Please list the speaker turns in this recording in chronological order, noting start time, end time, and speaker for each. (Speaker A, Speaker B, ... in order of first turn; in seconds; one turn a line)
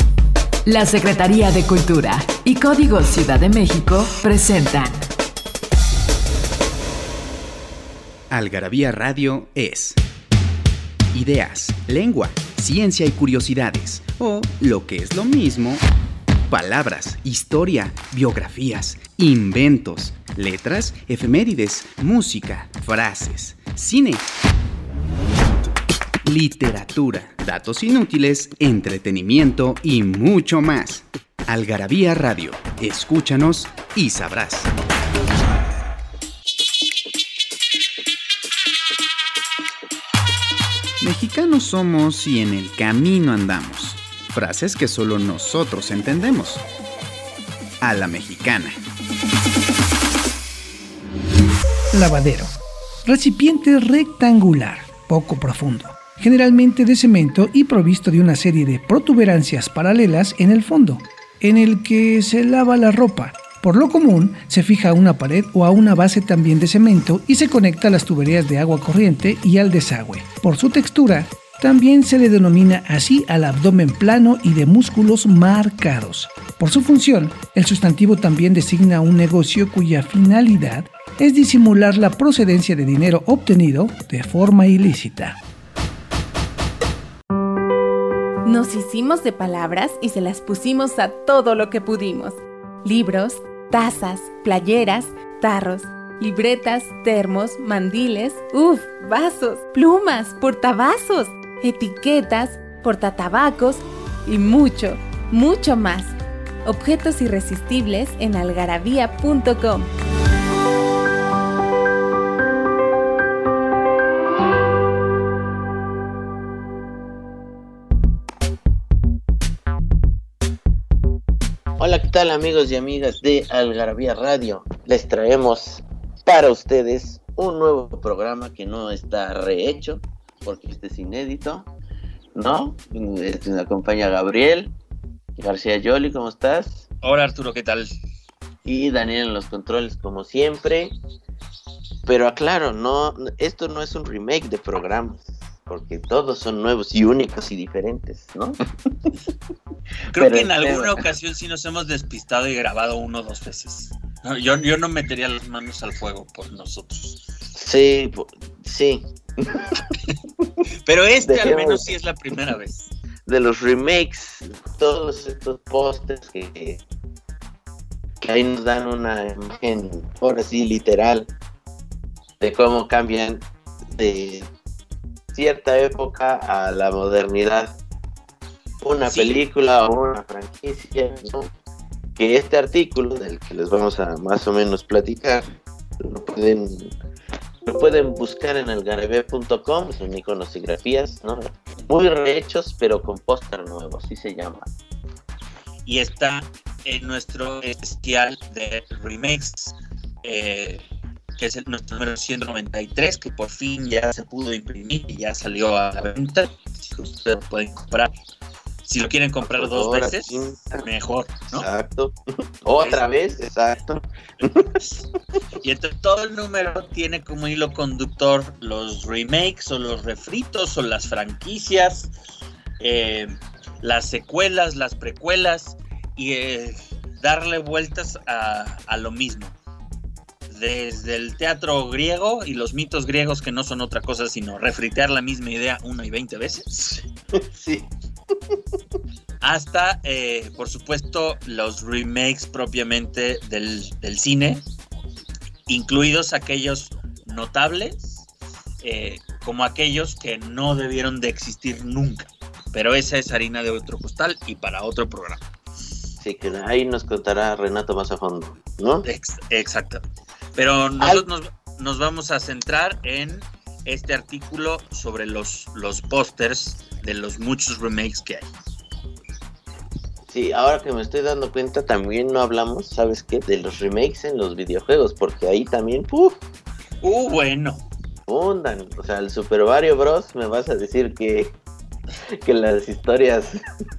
Speaker A: 0.7-5.1
Speaker B: 8.3-10.0
Speaker B: 11.1-15.8
Speaker B: 16.5-24.2
Speaker B: 26.2-34.7
Speaker B: 41.0-46.6
Speaker B: 47.8-48.8
Speaker C: 51.9-52.5
Speaker C: 53.0-85.4
Speaker D: 88.4-106.1
Speaker D: 106.6-109.9
Speaker E: 121.8-131.7
Speaker E: 132.3-134.7
Speaker E: 135.4-136.8
Speaker F: 137.0-137.9
Speaker E: 138.6-140.9
Speaker E: 142.1-148.6
Speaker F: 150.1-157.3
Speaker E: 150.1-151.0
Speaker E: 157.5-159.8
Speaker F: 160.8-162.9
Speaker E: 161.2-161.9
Speaker E: 163.2-166.8
Speaker E: 168.2-171.3
Speaker E: 172.4-174.5
Speaker E: 175.3-177.8
Speaker E: 178.8-181.5
Speaker F: 179.0-179.4
Speaker E: 182.2-185.4
Speaker E: 186.0-186.9
Speaker E: 187.6-194.7
Speaker F: 195.8-200.8
Speaker F: 201.4-208.1
Speaker F: 208.8-211.7
Speaker E: 209.4-210.8
Speaker E: 211.5-214.7
Speaker F: 215.6-222.1
Speaker F: 222.8-229.6
Speaker F: 230.5-236.7
Speaker E: 236.8-237.9
Speaker F: 239.4-244.6
Speaker F: 245.7-248.3
Speaker F: 248.8-255.4
Speaker E: 256.2-259.1
Speaker F: 259.0-268.5
Speaker E: 261.0-261.2
Speaker E: 270.3-276.4
Speaker F: 277.0-277.8
Speaker E: 278.3-281.6
Speaker E: 282.3-283.6